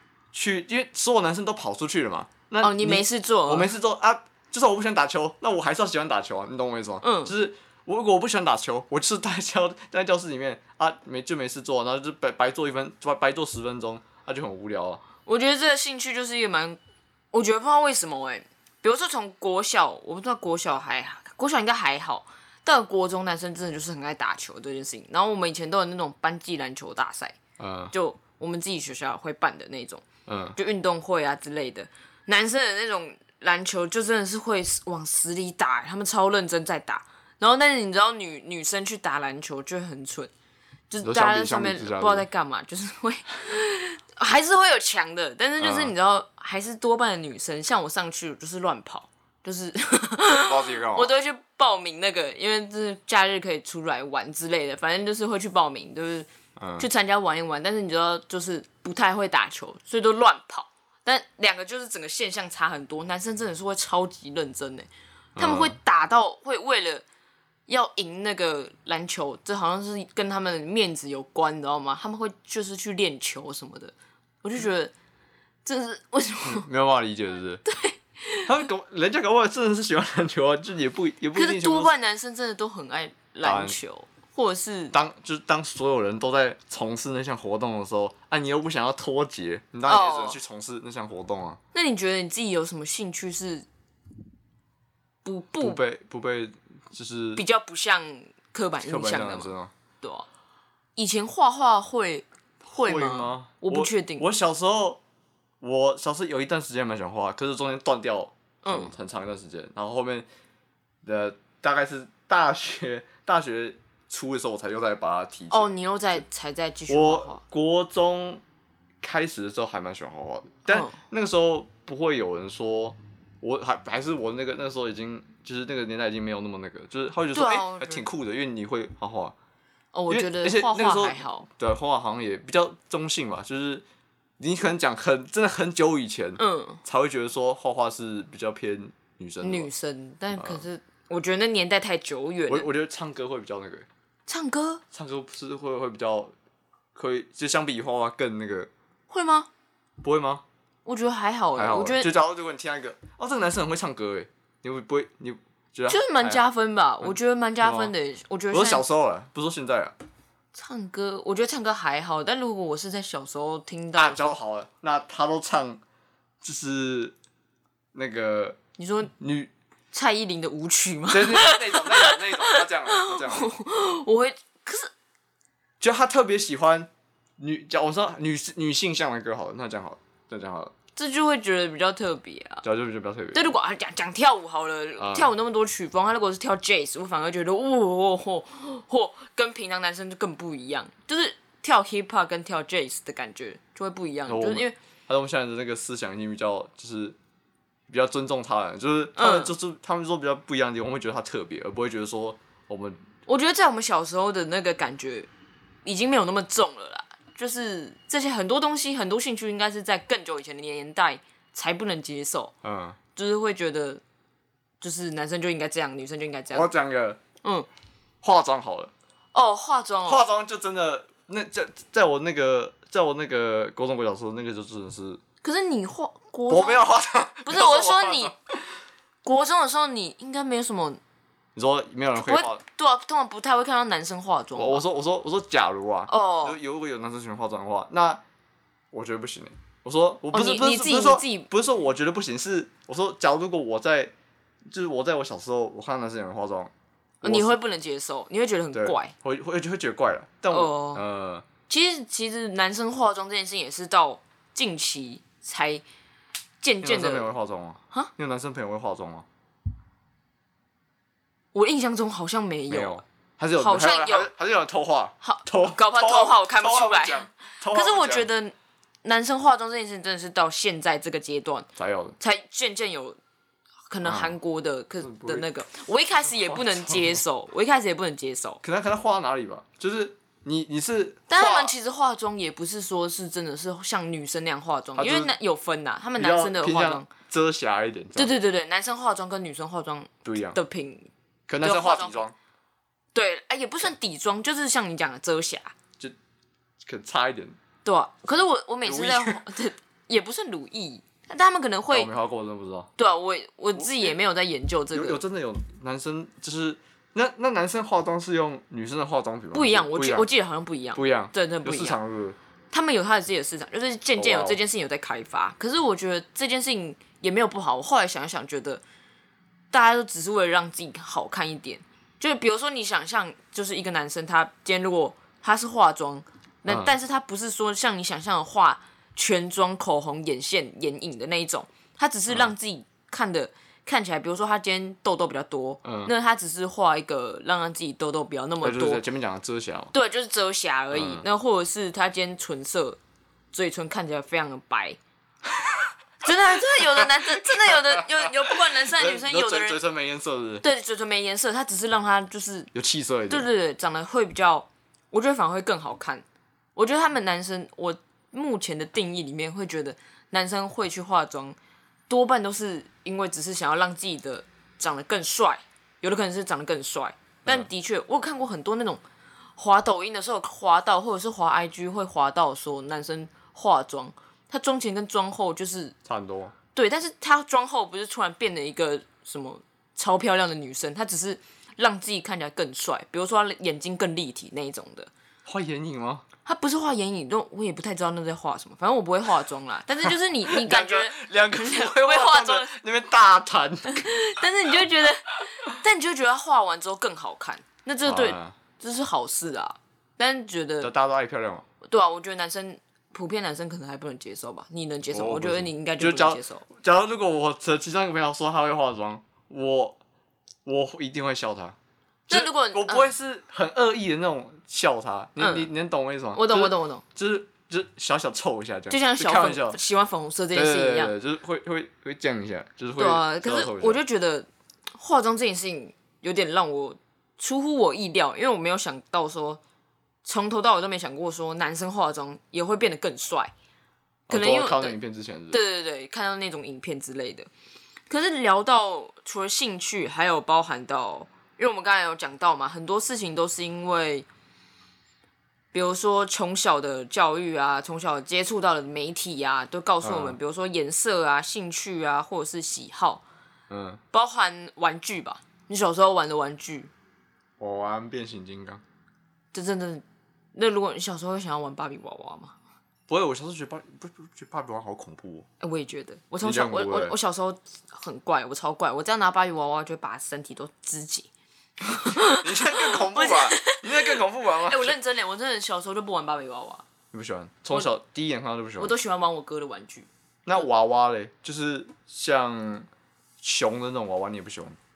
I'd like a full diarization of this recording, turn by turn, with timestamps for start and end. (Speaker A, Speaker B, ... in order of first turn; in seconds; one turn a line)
Speaker A: 0.3-15.0
Speaker B: 2.6-3.7
Speaker B: 7.0-7.3
Speaker B: 15.3-16.8
Speaker B: 17.3-27.4
Speaker A: 27.6-27.9
Speaker B: 27.9-30.1
Speaker A: 30.3-30.6
Speaker B: 30.6-40.3
Speaker B: 40.9-56.3
Speaker A: 41.0-42.3
Speaker A: 45.6-45.9
Speaker A: 50.4-51.1
Speaker A: 56.6-56.9
Speaker B: 56.8-67.0
Speaker A: 65.4-65.8
Speaker B: 67.7-74.9
Speaker B: 75.7-76.7
Speaker A: 76.4-77.6
Speaker B: 77.7-78.5
Speaker A: 78.4-81.9
Speaker B: 81.3-84.9
Speaker A: 83.4-83.8
Speaker A: 84.9-91.6
Speaker B: 89.9-90.4
Speaker B: 91.7-93.7
Speaker B: 95.2-95.8
Speaker A: 95.6-97.4
Speaker B: 97.4-100.3
Speaker A: 98.8-99.7
Speaker B: 101.0-104.2
Speaker A: 102.7-105.0
Speaker A: 105.6-110.3
Speaker B: 108.6-108.9
Speaker A: 111.0-115.7
Speaker B: 115.5-117.4
Speaker A: 116.9-118.4
Speaker A: 119.0-129.3
Speaker B: 120.7-121.0
Speaker B: 127.3-128.1
Speaker B: 129.9-131.5
Speaker A: 130.1-133.8
Speaker A: 134.4-139.7
Speaker B: 136.4-136.8
Speaker B: 139.4-142.7
Speaker A: 140.3-140.7
Speaker A: 142.5-143.9
Speaker B: 144.3-144.8
Speaker A: 144.9-146.3
Speaker A: 146.9-148.7
Speaker B: 149.1-149.5
Speaker A: 150.0-150.4
Speaker B: 150.8-152.1
Speaker A: 151.6-156.4
Speaker B: 155.9-158.8
Speaker A: 157.0-157.9
Speaker A: 158.5-159.9
Speaker B: 160.5-164.2
Speaker A: 164.0-165.8
Speaker A: 166.4-167.2
Speaker A: 167.9-168.6
Speaker B: 168.8-169.1
Speaker A: 169.1-169.5
Speaker B: 169.9-174.9
Speaker A: 171.1-173.5
Speaker A: 175.8-180.7
Speaker B: 181.0-182.6
Speaker A: 182.6-183.5
Speaker B: 183.3-194.8
Speaker A: 185.0-185.3
Speaker A: 194.3-197.2
Speaker A: 197.9-203.1
Speaker B: 199.2-199.5
Speaker B: 203.3-205.3
Speaker B: 205.8-212.5
Speaker A: 212.6-213.0
Speaker B: 213.2-214.0
Speaker B: 214.8-216.7
Speaker A: 216.5-217.2
Speaker B: 217.4-217.7
Speaker A: 218.2-218.9
Speaker B: 219.3-220.2
Speaker A: 220.1-225.2
Speaker B: 225.4-226.9
Speaker A: 226.5-228.6
Speaker B: 227.4-228.3
Speaker B: 229.2-231.0
Speaker A: 231.6-232.6
Speaker B: 232.2-234.8
Speaker A: 234.6-238.2
Speaker B: 236.1-236.6
Speaker A: 238.9-244.1
Speaker B: 240.3-241.5
Speaker A: 244.7-246.7
Speaker B: 247.2-249.1
Speaker A: 247.2-247.6
Speaker A: 248.7-251.5
Speaker B: 250.5-251.0
Speaker B: 251.7-255.8
Speaker B: 256.6-257.3
Speaker A: 256.8-259.3
Speaker B: 261.5-263.0
Speaker A: 262.7-268.3
Speaker B: 263.6-264.3
Speaker B: 265.2-271.7
Speaker A: 271.8-272.2
Speaker B: 272.2-273.2
Speaker B: 273.9-278.6
Speaker A: 274.0-274.4
Speaker A: 275.0-275.5
Speaker A: 276.3-277.2
Speaker A: 278.6-281.7
Speaker B: 281.3-287.1
Speaker A: 285.0-285.3
Speaker A: 286.2-288.3
Speaker B: 288.1-291.1
Speaker A: 290.2-290.6
Speaker A: 291.5-292.3
Speaker B: 291.6-292.2
Speaker B: 293.1-295.8
Speaker A: 296.9-297.6
Speaker B: 297.8-302.1
Speaker A: 298.8-299.4
Speaker A: 301.9-302.9
Speaker B: 303.0-305.2
Speaker A: 303.8-304.1
Speaker A: 304.9-310.3
Speaker B: 309.5-312.0
Speaker A: 310.9-312.4
Speaker B: 312.7-318.8
Speaker A: 314.1-314.6
Speaker B: 319.7-339.0
Speaker A: 326.7-326.9
Speaker A: 335.8-336.1
Speaker A: 338.6-339.9
Speaker B: 339.9-343.0
Speaker A: 340.9-341.3
Speaker B: 343.5-345.0
Speaker B: 346.2-349.8
Speaker A: 346.8-350.6
Speaker B: 350.6-352.7
Speaker A: 352.7-353.5
Speaker B: 353.3-356.2
Speaker B: 356.8-361.6
Speaker B: 362.1-369.0
Speaker B: 369.6-376.0
Speaker A: 376.1-376.6
Speaker B: 376.8-385.1
Speaker A: 385.5-386.2
Speaker B: 386.4-392.7
Speaker A: 390.4-394.1
Speaker B: 393.9-400.9
Speaker A: 398.1-398.6
Speaker A: 400.8-401.6
Speaker B: 401.8-406.6
Speaker A: 405.1-410.0
Speaker A: 410.6-411.8
Speaker B: 412.3-413.1
Speaker A: 412.3-419.8
Speaker B: 415.4-415.7
Speaker B: 416.3-417.0
Speaker B: 418.9-421.1
Speaker A: 420.5-424.0
Speaker B: 423.0-429.6
Speaker B: 430.2-433.5
Speaker B: 434.3-435.0
Speaker A: 434.3-435.6
Speaker B: 435.5-437.5
Speaker B: 438.1-444.3
Speaker B: 445.7-453.2
Speaker A: 450.0-450.4
Speaker A: 453.7-454.0
Speaker B: 454.1-456.9
Speaker A: 457.6-458.8
Speaker B: 459.5-460.0
Speaker B: 460.6-462.6
Speaker A: 463.1-465.5
Speaker B: 465.6-471.3
Speaker A: 466.4-467.2
Speaker B: 471.8-476.9
Speaker A: 472.2-475.0
Speaker A: 477.1-478.9
Speaker B: 478.8-480.1
Speaker A: 480.5-482.9
Speaker A: 483.4-484.8